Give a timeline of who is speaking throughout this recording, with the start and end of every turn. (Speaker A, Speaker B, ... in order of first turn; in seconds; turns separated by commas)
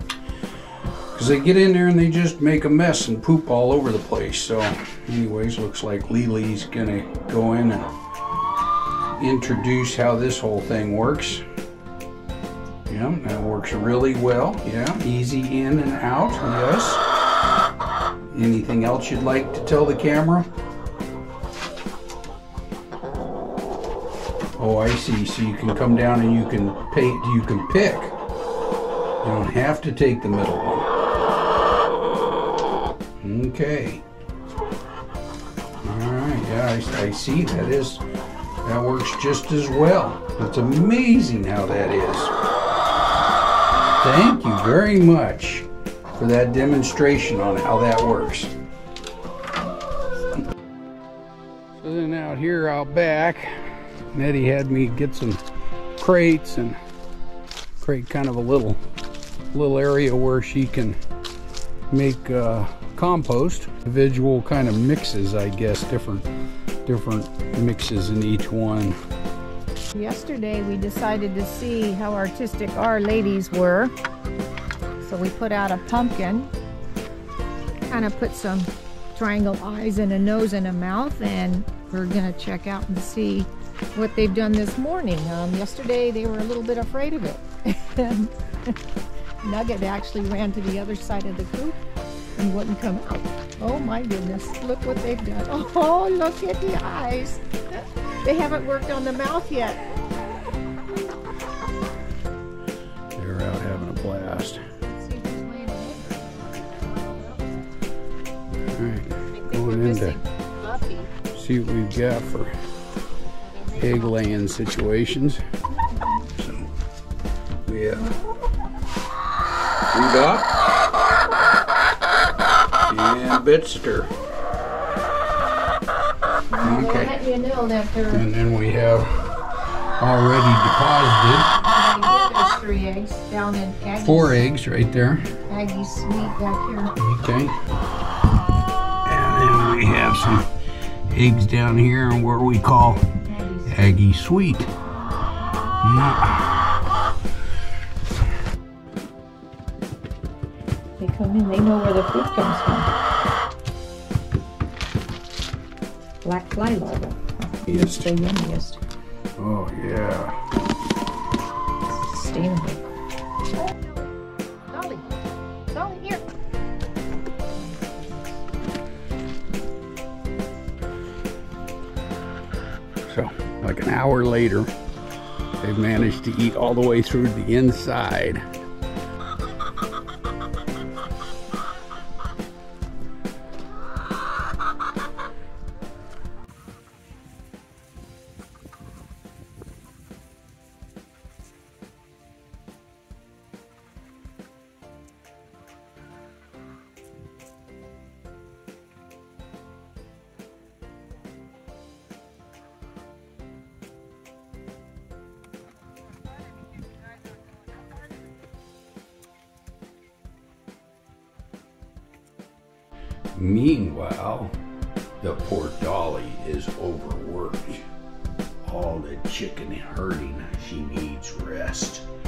Speaker A: 1.1-7.9, Speaker A: 9.2-11.4, Speaker A: 12.9-17.0, Speaker A: 18.3-20.5, Speaker A: 24.6-28.1, Speaker A: 29.2-30.9, Speaker A: 33.2-34.0, Speaker A: 35.8-38.0, Speaker A: 38.6-42.3, Speaker A: 44.0-48.5, Speaker A: 51.8-53.5, Speaker A: 54.1-55.4, Speaker A: 56.0-56.8, Speaker A: 57.8-58.8, Speaker A: 59.5-61.0, Speaker A: 61.9-66.3, Speaker A: 66.8-69.0, Speaker B: 69.9-73.9, Speaker B: 75.0-76.5, Speaker B: 77.9-88.7, Speaker B: 89.4-91.8, Speaker B: 92.3-99.8, Speaker A: 103.2-104.6, Speaker B: 104.8-107.7, Speaker A: 108.7-110.2, Speaker B: 109.2-111.1, Speaker A: 111.3-112.5, Speaker B: 113.4-114.2, Speaker A: 113.8-115.4, Speaker A: 116.4-116.7, Speaker A: 117.6-118.2, Speaker A: 119.9-120.5, Speaker A: 122.9-124.1, Speaker B: 126.5-128.2, Speaker A: 126.6-127.1, Speaker A: 128.1-129.3, Speaker A: 130.0-131.6, Speaker B: 131.6-134.4, Speaker A: 134.0-135.3, Speaker B: 135.4-136.9, Speaker A: 137.0-137.6, Speaker A: 139.0-140.5, Speaker A: 141.1-143.1, Speaker B: 143.2-143.8, Speaker A: 143.7-144.7, Speaker A: 145.8-146.8, Speaker B: 151.0-152.9, Speaker B: 156.2-158.8, Speaker A: 157.7-158.1, Speaker A: 159.4-160.4, Speaker B: 161.8-162.8, Speaker B: 163.6-164.1, Speaker B: 164.7-165.2, Speaker B: 165.7-166.2, Speaker B: 167.5-168.3, Speaker A: 173.0-174.7, Speaker A: 175.6-178.4, Speaker A: 213.3-214.6, Speaker A: 215.2-217.8, Speaker A: 218.6-222.1